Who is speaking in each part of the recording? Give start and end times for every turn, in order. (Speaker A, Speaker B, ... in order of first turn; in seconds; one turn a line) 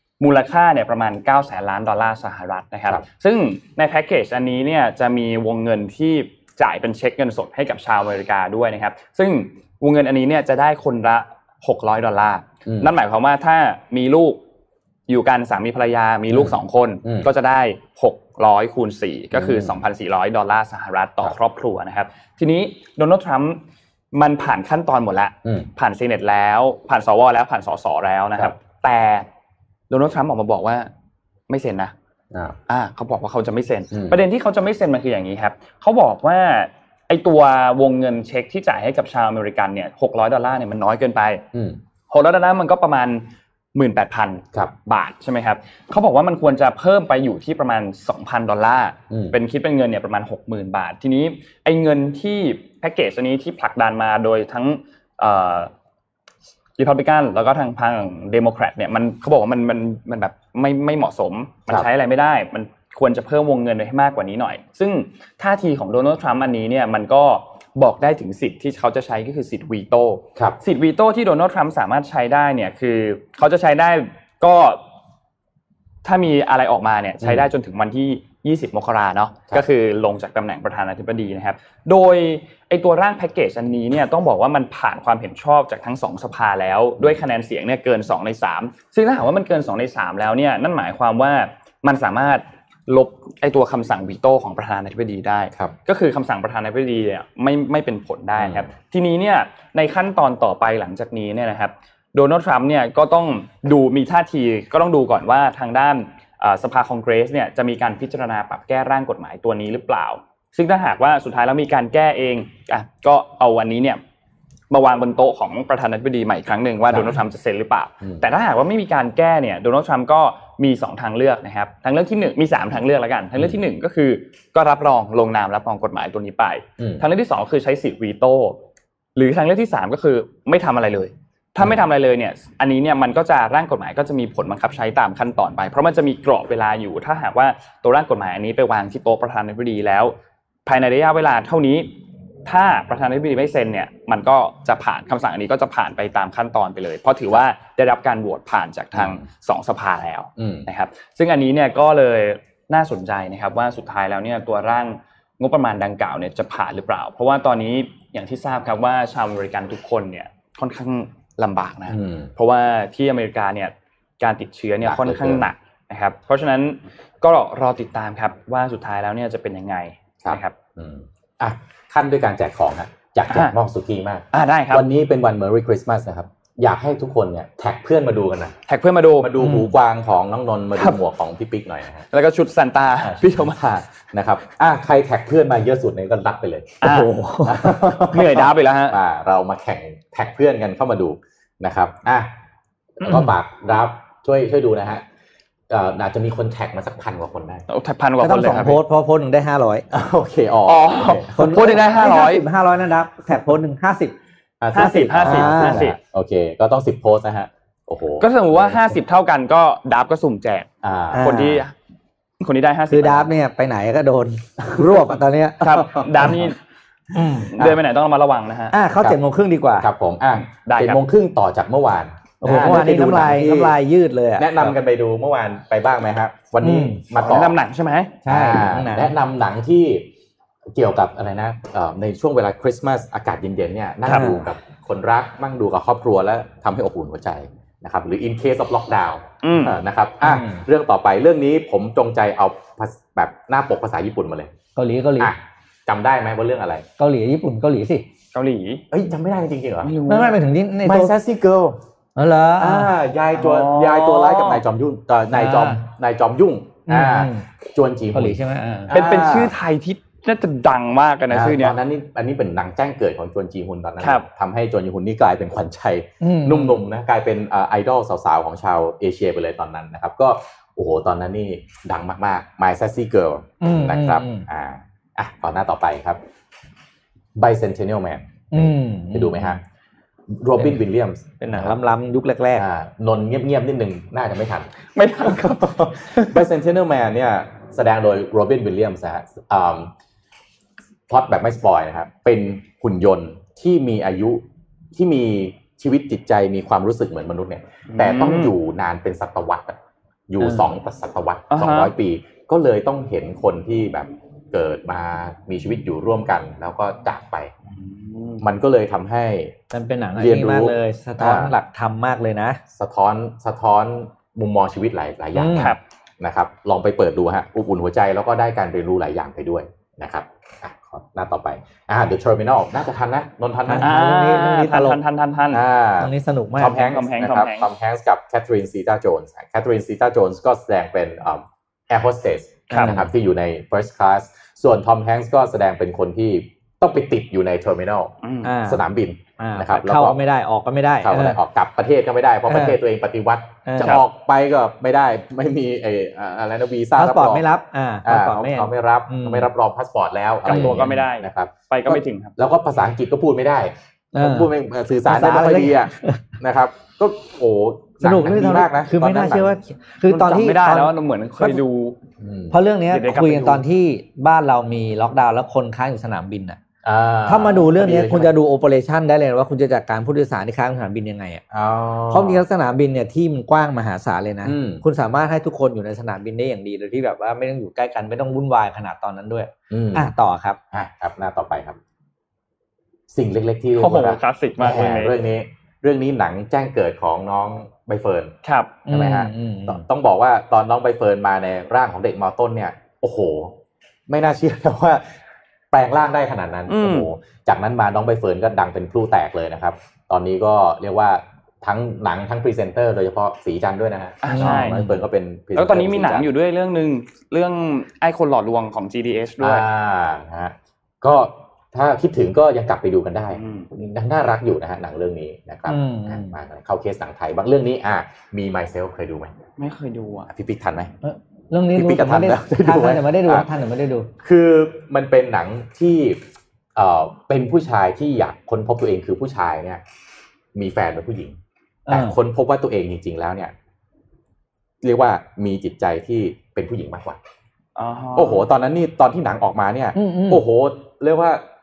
Speaker A: 0.2-14.4
Speaker B: 12.7-12.9
Speaker A: 15.1-23.6
Speaker B: 16.3-17.3
Speaker B: 19.3-19.8
Speaker A: 24.1-29.3
Speaker A: 29.9-30.9
Speaker A: 31.5-31.9
Speaker B: 32.3-32.6
Speaker A: 32.7-41.4
Speaker B: 33.9-34.2
Speaker B: 41.5-41.8
Speaker A: 42.1-55.7
Speaker B: 49.1-49.4
Speaker A: 56.8-74.8
Speaker A: 76.0-114.0
Speaker B: 77.2-77.5
Speaker B: 98.4-98.7
Speaker A: 114.7-128.6
Speaker B: 116.9-117.2
Speaker B: 126.8-127.0
Speaker A: 129.2-140.1
Speaker A: 140.7-141.9
Speaker A: 142.4-170.6
Speaker B: 148.9-149.2
Speaker B: 150.4-150.7
Speaker B: 161.9-162.3
Speaker B: 164.8-165.5
Speaker B: 170.2-178.5
Speaker A: 174.3-174.8
Speaker A: 178.7-179.4
Speaker B: 179.2-182.1
Speaker C: 179.4-179.7
Speaker A: 182.1-183.6
Speaker B: 183.0-186.8
Speaker A: 186.8-187.1
Speaker C: 186.8-187.7
Speaker B: 187.4-192.3
Speaker A: 188.0-189.0
Speaker B: 193.0-195.0
Speaker B: 195.7-197.6
Speaker A: 197.7-198.8
Speaker C: 198.2-199.8
Speaker B: 199.9-201.3
Speaker A: 200.7-202.4
Speaker C: 201.3-204.1
Speaker B: 204.6-208.9
Speaker A: 204.7-206.0
Speaker C: 204.8-205.9
Speaker A: 208.2-211.7
Speaker B: 210.8-211.4
Speaker C: 211.1-211.6
Speaker A: 212.4-213.3
Speaker C: 212.9-215.6
Speaker B: 214.6-215.0
Speaker A: 215.6-216.6
Speaker B: 215.7-216.3
Speaker C: 217.1-217.5
Speaker A: 217.5-218.7
Speaker C: 218.7-219.9
Speaker B: 219.8-223.8
Speaker A: 220.5-221.0
Speaker C: 222.4-224.7
Speaker B: 224.4-227.6
Speaker C: 226.6-227.0
Speaker A: 227.1-228.2
Speaker C: 228.2-229.1
Speaker B: 228.3-230.1
Speaker B: 230.7-244.5
Speaker A: 234.1-234.3
Speaker C: 234.1-234.4
Speaker A: 239.4-239.8
Speaker C: 240.2-240.6
Speaker C: 244.8-245.3
Speaker B: 245.2-246.8
Speaker C: 247.0-248.0
Speaker A: 248.3-248.8
Speaker B: 248.9-249.9
Speaker A: 249.8-250.4
Speaker C: 250.1-251.1
Speaker B: 250.8-251.8
Speaker C: 252.2-252.9
Speaker B: 252.6-259.5
Speaker A: 253.3-254.6
Speaker C: 255.3-255.8
Speaker C: 256.9-257.4
Speaker C: 258.1-258.9
Speaker A: 258.9-261.8
Speaker B: 261.3-276.2
Speaker A: 264.0-264.2
Speaker C: 266.2-266.8
Speaker C: 273.6-274.4
Speaker B: 277.3-279.6
Speaker C: 278.5-279.6
Speaker B: 280.3-281.8
Speaker C: 281.4-282.6
Speaker B: 282.5-289.9
Speaker A: 284.9-286.4
Speaker B: 291.1-294.4
Speaker B: 294.9-299.8
Speaker A: 297.9-298.5
Speaker B: 300.3-307.5
Speaker C: 300.4-300.7
Speaker A: 301.5-301.9
Speaker A: 307.8-308.4
Speaker B: 308.4-309.6
Speaker C: 309.7-312.6
Speaker B: 310.2-311.5
Speaker B: 312.7-324.0
Speaker C: 315.3-315.7
Speaker A: 315.5-315.8
Speaker C: 323.6-325.0
Speaker A: 323.8-325.6
Speaker B: 325.5-340.2
Speaker C: 326.0-326.9
Speaker A: 326.7-327.7
Speaker C: 332.7-333.1
Speaker A: 338.2-338.5
Speaker C: 338.4-338.8
Speaker C: 339.4-341.4
Speaker B: 341.0-347.4
Speaker C: 342.5-342.8
Speaker C: 343.6-344.0
Speaker C: 347.0-349.5
Speaker B: 348.0-359.5
Speaker A: 350.4-352.3
Speaker C: 350.5-350.8
Speaker C: 354.1-354.5
Speaker C: 355.1-356.2
Speaker C: 358.0-361.6
Speaker A: 360.1-361.9
Speaker B: 362.2-362.6
Speaker C: 362.5-366.6
Speaker A: 362.9-363.6
Speaker B: 366.8-368.3
Speaker C: 367.3-371.4
Speaker B: 371.5-372.4
Speaker C: 372.1-380.6
Speaker B: 374.4-374.8
Speaker B: 379.7-380.1
Speaker B: 380.7-381.8
Speaker B: 383.1-388.3
Speaker A: 383.8-385.1
Speaker A: 388.4-388.8
Speaker C: 388.9-389.8
Speaker B: 388.9-393.6
Speaker B: 394.1-395.0
Speaker B: 395.7-406.3
Speaker A: 396.7-397.1
Speaker A: 404.2-404.8
Speaker C: 404.3-404.9
Speaker A: 405.5-409.6
Speaker B: 409.4-419.3
Speaker A: 413.3-413.7
Speaker C: 415.7-416.3
Speaker A: 419.6-420.3
Speaker B: 420.3-420.9
Speaker C: 421.0-424.1
Speaker B: 421.7-423.5
Speaker B: 424.2-426.2
Speaker B: 426.8-429.8
Speaker B: 430.5-431.4
Speaker C: 431.9-432.1
Speaker B: 431.9-433.5
Speaker B: 434.8-437.2
Speaker A: 437.8-438.4
Speaker B: 438.1-441.4
Speaker C: 439.9-440.4